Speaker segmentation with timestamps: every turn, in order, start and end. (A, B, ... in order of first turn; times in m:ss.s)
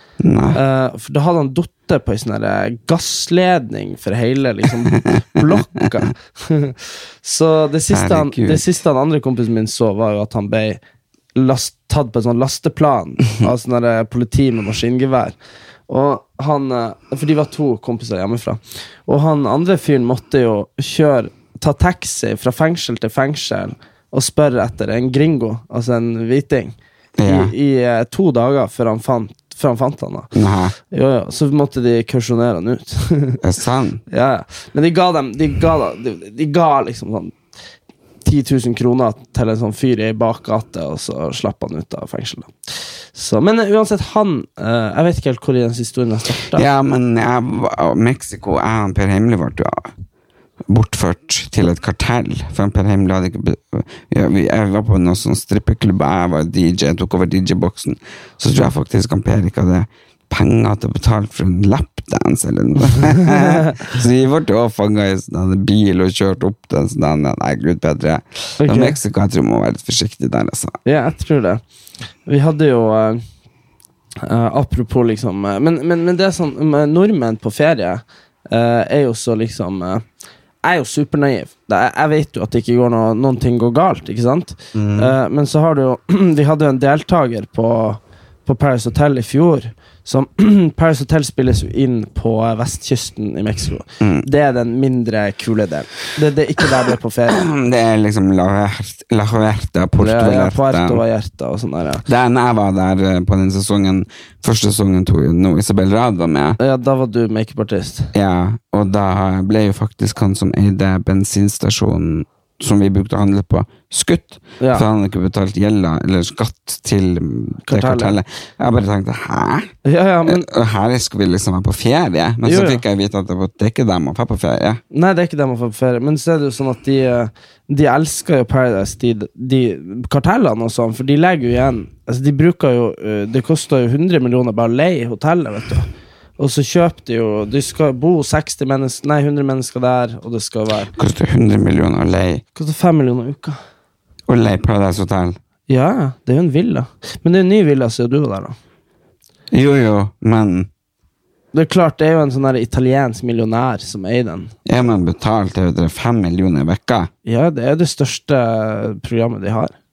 0:00.2-0:00.6 A
0:00.5-0:10.8 B
0:04.9-0:05.6 A
0:07.9-0:08.6 A
0:11.3-0:15.4 B
0:15.9-0:30.3 B
0:27.2-0:27.5 A
0:30.3-0:30.7 A
0:30.9-0:33.4 B
0:33.4-0:34.0 A
0:34.1-0:37.4 B
0:38.2-0:46.7 B
0:46.5-0:49.9 A
0:50.7-1:10.8 A
1:03.2-1:03.7 B
1:08.6-1:09.0 B
1:10.8-1:11.6 B
1:12.2-1:13.2 B
1:14.2-1:20.0 B
1:20.6-1:37.4 B
1:24.7-1:25.1 A
1:34.0-1:34.2 A
1:37.3-1:41.0 A
1:40.0-1:42.0 B
1:42.0-1:46.6 A
1:46.6-1:48.1 B
1:48.1-1:59.7 A
1:54.6-1:54.8 B
1:57.6-1:58.2 B
1:59.8-2:00.5 B
2:00.2-2:04.8 A
2:02.4-2:02.8 B
2:04.9-2:20.9 B
2:20.9-2:22.4 A
2:22.5-2:23.6 B
2:24.3-2:25.4 A
2:25.7-2:28.6 B
2:29.5-2:30.7 A
2:31.5-2:34.6 B
2:34.6-2:37.1 A
2:37.2-2:39.7 B